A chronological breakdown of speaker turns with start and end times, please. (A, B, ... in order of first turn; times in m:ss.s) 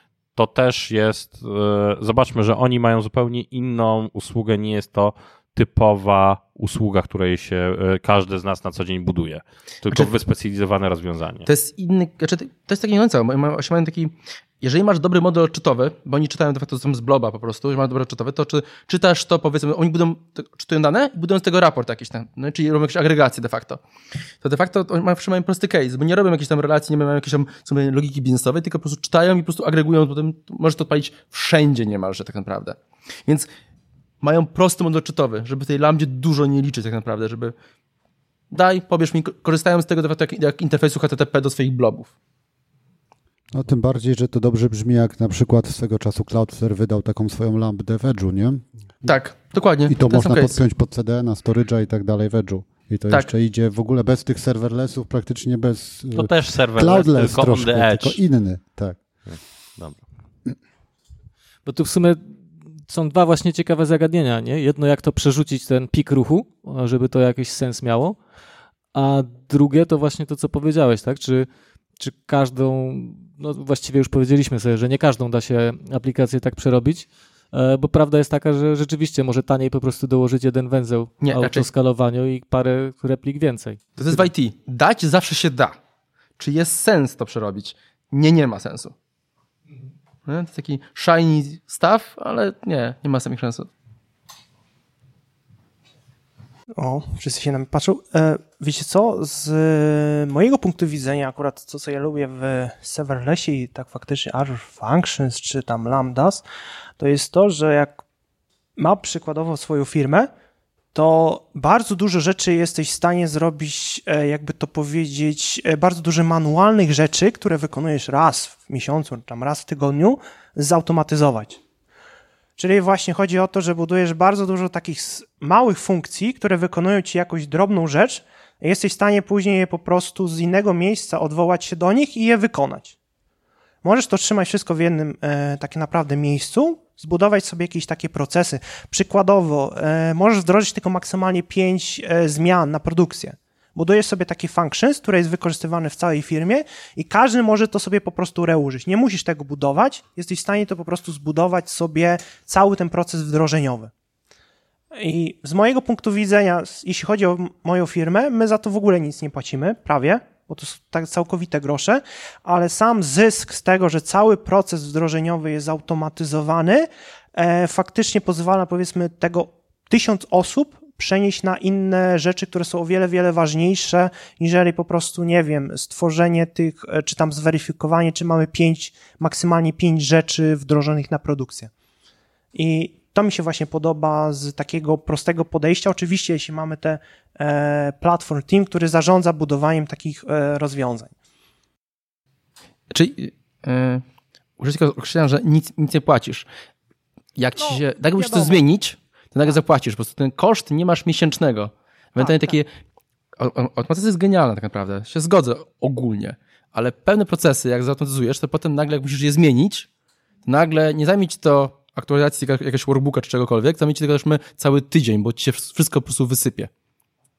0:00.4-0:11.5 A
0:11.5-0:23.8 B
0:24.4-0:33.5 B
0:34.2-0:37.5 B
0:38.5-0:42.1 B
0:43.5-0:49.1 C
0:49.0-0:50.6 B
0:49.8-0:59.0 C
0:56.1-0:58.2 A
0:59.2-1:00.0 A
1:01.6-1:08.2 D
1:08.9-1:24.3 D
1:21.2-1:21.7 B
1:24.0-1:25.8 B
1:26.4-1:28.9 B
1:30.2-1:33.7 B
1:36.8-1:46.4 E
1:47.0-1:48.0 E
1:48.8-1:50.3 E
1:50.9-2:01.6 E
2:02.6-2:12.9 E
2:13.8-2:33.9 E
2:34.9-3:01.7 E
3:02.5-3:11.1 E
3:12.9-3:14.0 B
3:14.6-3:16.4 B
3:17.4-3:22.7 B
3:17.6-3:18.6 E
3:22.2-3:22.6 E
3:23.4-3:29.8 B
3:30.4-3:36.7 B